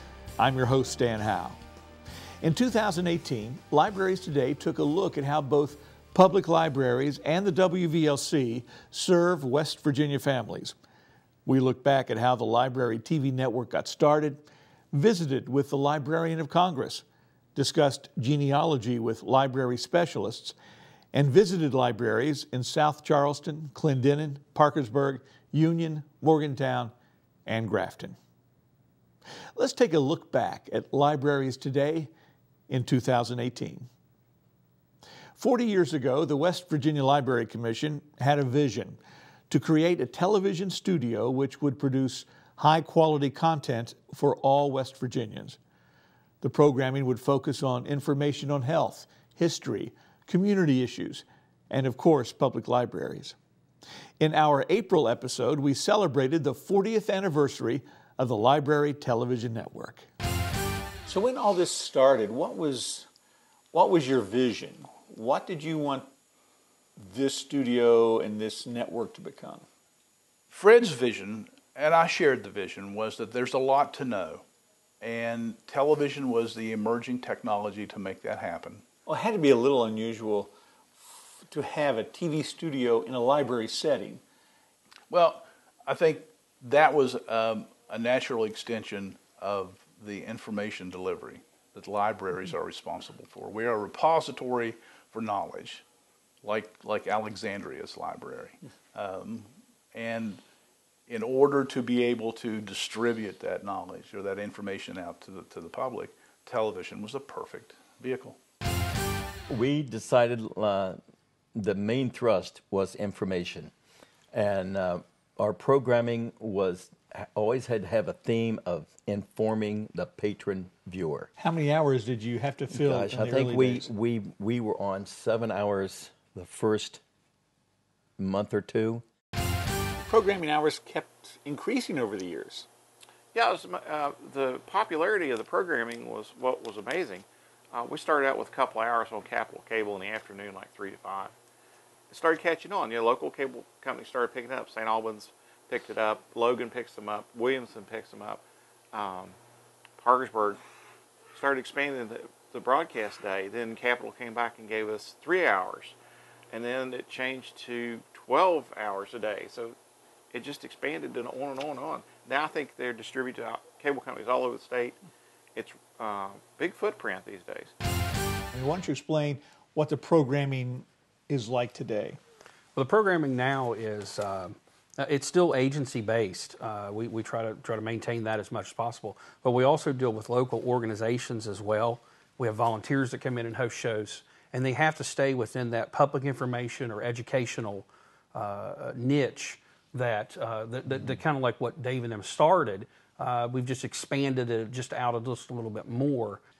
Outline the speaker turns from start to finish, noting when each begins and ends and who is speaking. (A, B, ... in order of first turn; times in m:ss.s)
0:00.4-0:01.6 A
0:02.4-0:10.8 A
0:11.5-0:17.0 A
0:17.6-0:20.6 A
0:21.1-0:26.9 A
0:27.5-0:28.2 A
0:29.6-0:32.1 A
0:32.7-0:33.9 A
0:35.4-0:39.0 A
0:39.5-0:45.6 A
0:46.4-0:53.4 A
0:54.2-1:00.1 A
1:01.1-1:03.1 A
1:03.7-1:06.1 A
1:07.0-1:09.6 A
1:10.5-1:14.4 B
1:15.0-1:18.8 B
1:19.1-1:24.2 A
1:25.1-1:35.8 B
1:36.4-1:40.4 B
1:41.1-1:48.4 B
1:49.5-1:51.0 C
1:51.6-1:53.7 C
1:54.3-2:01.3 C
2:01.4-2:03.9 A
2:02.7-2:07.0 C
2:08.2-2:09.0 C
2:10.0-2:12.7 A
2:13.3-2:21.3 D
2:22.1-2:29.4 D
2:30.0-2:30.6 D
2:31.3-2:36.0 D
2:36.5-2:39.8 D
2:40.3-2:45.0 D
2:45.6-2:47.7 D
2:48.5-2:52.2 A
2:52.8-3:16.4 E